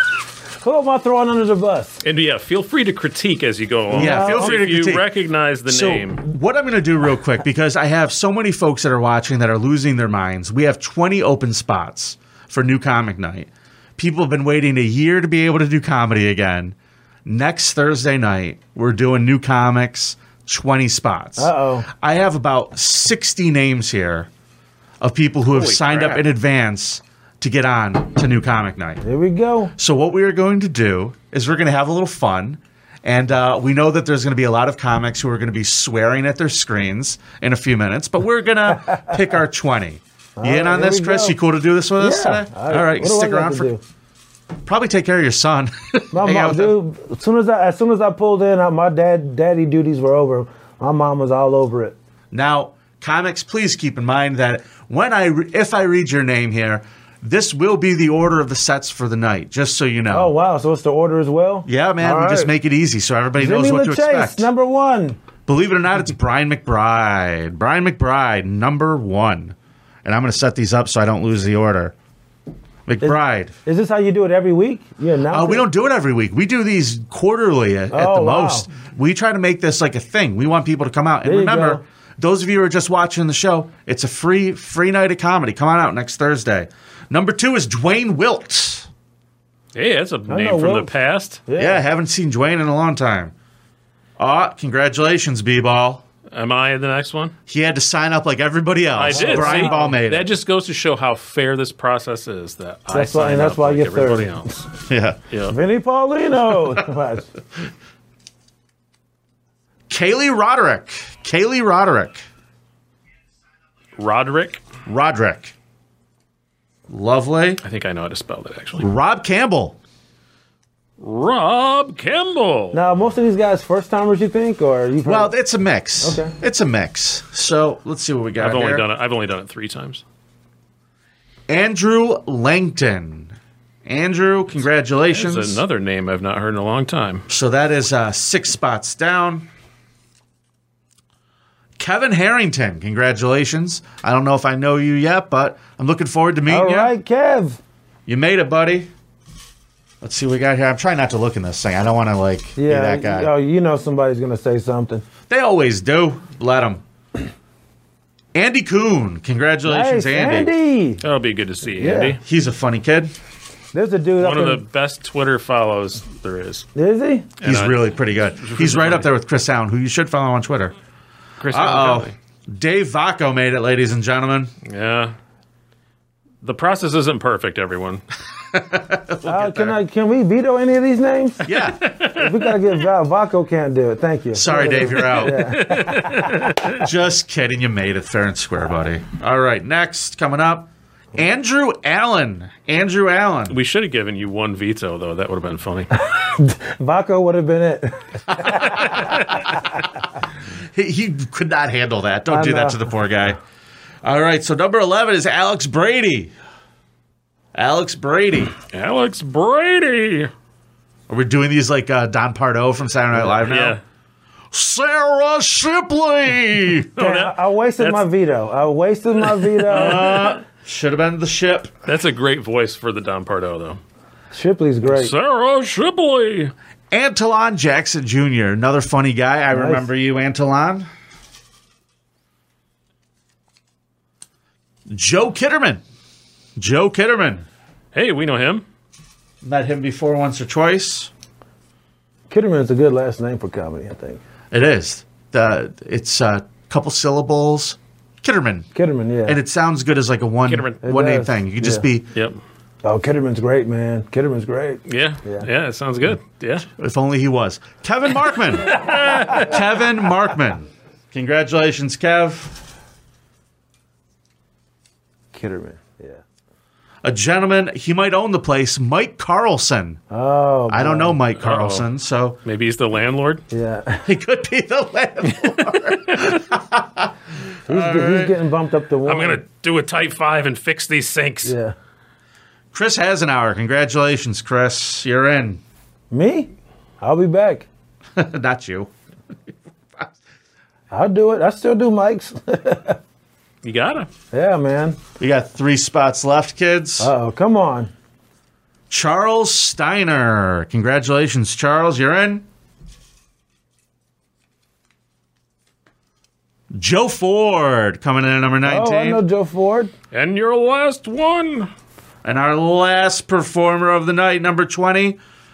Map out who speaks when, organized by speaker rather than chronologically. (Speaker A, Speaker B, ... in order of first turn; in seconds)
Speaker A: 0.6-2.0, 3.9-4.6, 21.4-21.9, 29.0-29.7, 38.8-39.2, 40.4-41.4, 42.0-43.8, 46.1-52.0, 60.1-62.5, 63.4-65.2, 73.0-75.7, 77.9-78.7, 81.2-81.8, 90.3-90.9, 91.5-91.8, 99.1-100.0, 102.9-104.6, 105.5-107.3, 122.7-125.3, 126.0-126.3, 146.5-147.6, 152.6-155.1, 159.7-161.0, 161.8-162.2, 163.7-164.6, 166.8-167.3, 179.2-186.5, 196.1-199.6, 202.3-202.8, 217.0-220.3, 224.3-225.1, 229.5-229.8, 242.3-244.2, 248.8-249.4, 250.8-251.8, 252.8-255.5, 265.3-266.2, 270.1-271.2, 273.5-274.1, 277.7-279.4, 281.4-281.8, 286.1-286.5, 287.0-287.7, 290.9-293.0, 294.3-295.0, 297.0-297.9, 308.6-309.9
Speaker B: 2.0-6.2, 25.5-26.2, 89.8-91.4, 96.3-97.3, 99.0-104.6, 105.3-105.6, 114.0-114.6, 117.6-118.9, 121.0-122.8, 128.4-130.0, 135.1-137.2, 161.0-162.2, 164.2-166.7, 167.4-167.8, 168.4-169.1, 171.4-172.1, 174.7-175.1, 176.4-178.0, 181.8-182.3, 185.0-186.8, 193.5-195.9, 208.7-210.3, 213.3-213.8, 217.0-218.1, 219.2-220.3, 221.8-223.8, 224.8-226.5, 237.9-238.6, 250.5-250.8, 254.9-256.7, 258.7-259.5, 271.4-271.9, 272.4-273.4, 279.1-281.6, 293.6-294.1, 310.1-311.7
Speaker C: 3.9-5.1, 5.7-24.3, 25.0-29.0, 29.8-43.7, 44.6-46.8, 52.3-60.3, 61.7-64.5, 65.5-71.9, 72.9-73.5, 75.3-88.9, 91.6-93.3, 94.2-96.0, 97.5-100.3, 104.9-105.2, 109.9-112.2, 114.9-115.5, 116.9-117.6, 118.8-119.8, 125.0-128.8, 131.5-135.6, 137.3-139.5, 141.8-146.9, 148.1-148.9, 150.0-153.3, 155.3-156.8, 158.3-160.5, 162.2-163.1, 167.4-170.7, 171.5-174.5, 178.5-179.8, 181.4-182.0, 184.3-185.5, 186.7-193.6, 200.7-203.4, 204.0-206.3, 207.6-208.6, 211.1-213.8, 214.5-216.9, 219.7-221.7, 226.9-230.9, 234.9-235.8, 236.6-237.5, 239.4-241.1, 244.5-248.7, 249.3-252.1, 256.8-262.6, 267.0-270.0, 270.7-272.4, 274.1-277.1, 277.7-278.4, 282.7-285.6, 288.2-288.9, 295.2-297.1, 298.9-302.5, 306.7-309.2, 312.2-315.2